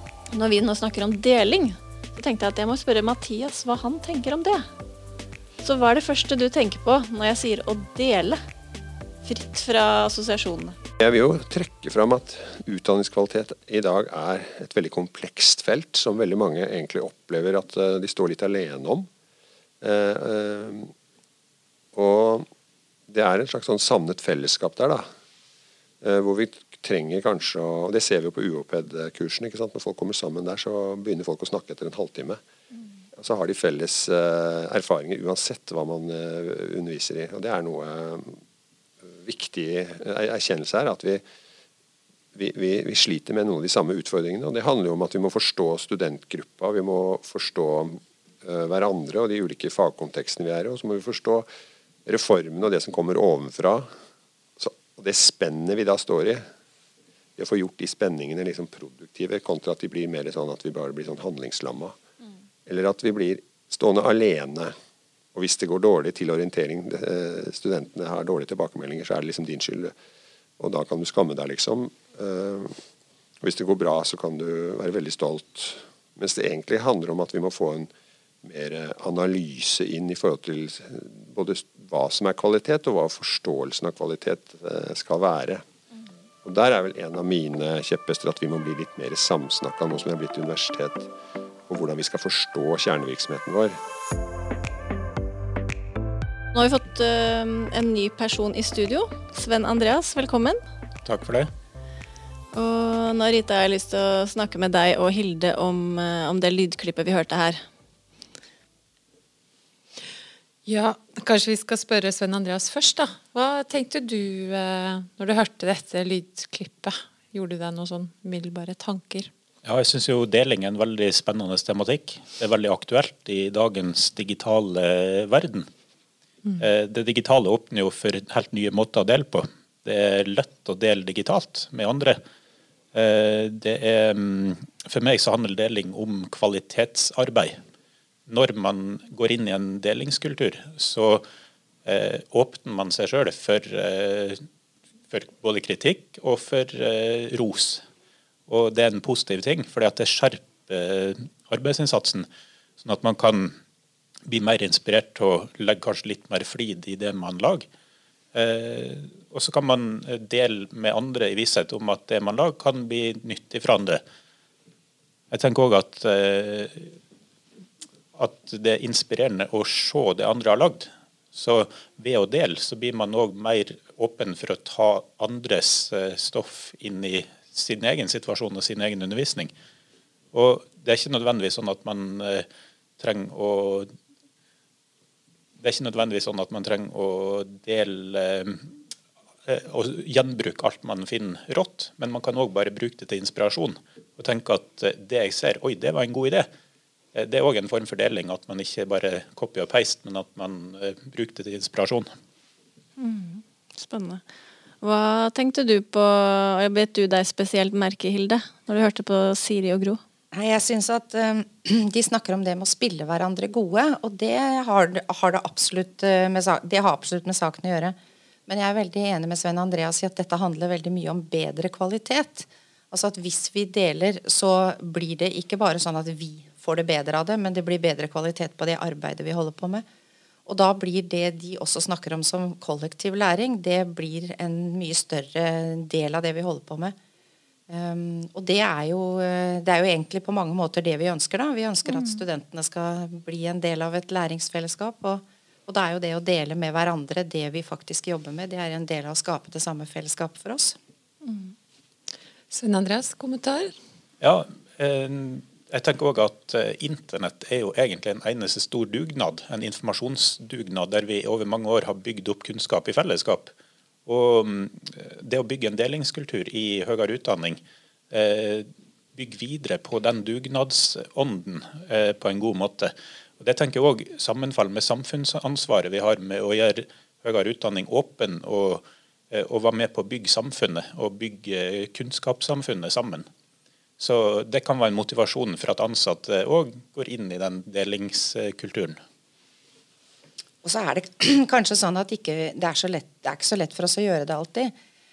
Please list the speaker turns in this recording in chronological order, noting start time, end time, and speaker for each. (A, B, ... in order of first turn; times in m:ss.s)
0:00.3-0:04.7 A
0:05.6-0:08.4 A
0:09.2-0:10.8 A
0:11.0-0:19.1 B
0:19.8-0:20.9 B
0:21.9-0:22.5 B
0:23.1-0:25.1 B
0:26.0-0:32.4 B
0:33.2-0:38.4 B
0:39.1-0:41.2 B
0:42.4-0:51.5 B
0:52.1-0:53.9 B
0:54.6-0:56.4 B
0:57.4-1:02.0 B
1:02.7-1:04.7 B
1:05.3-1:09.9 B
1:10.6-1:12.8 B
1:13.4-1:17.9 B
1:18.4-1:25.6 B
1:26.4-1:31.1 B
1:31.7-1:33.8 B
1:36.5-1:40.6 A
1:41.0-1:41.5 C
1:42.5-1:47.6 A
1:50.7-1:59.3 D
1:59.6-2:05.7 C
2:06.6-2:12.2 C
2:12.9-2:17.6 C
2:18.3-2:21.2 C
2:21.8-2:24.4 C
2:25.1-2:27.8 C
2:28.5-2:32.3 C
2:32.8-2:33.6 C
2:34.3-2:37.7 C
2:38.3-2:44.0 C
2:45.3-2:46.9 C
2:48.2-2:59.5 C
3:00.3-3:02.5 C
3:03.0-3:03.9 C
3:05.6-3:08.7 C
3:09.5-3:16.5 C
3:17.1-3:22.1 C
3:23.0-3:24.2 A
3:24.8-3:30.0 A
3:30.3-3:38.0 E
3:38.5-3:49.8 E
3:50.5-3:57.0 E
3:57.7-4:10.8 E
4:01.9-4:02.2 A
4:11.2-4:11.5 A
4:12.5-4:13.8 D
4:14.2-4:23.5 C
4:24.1-4:43.3 C
4:44.0-4:49.0 C
4:50.6-4:54.7 E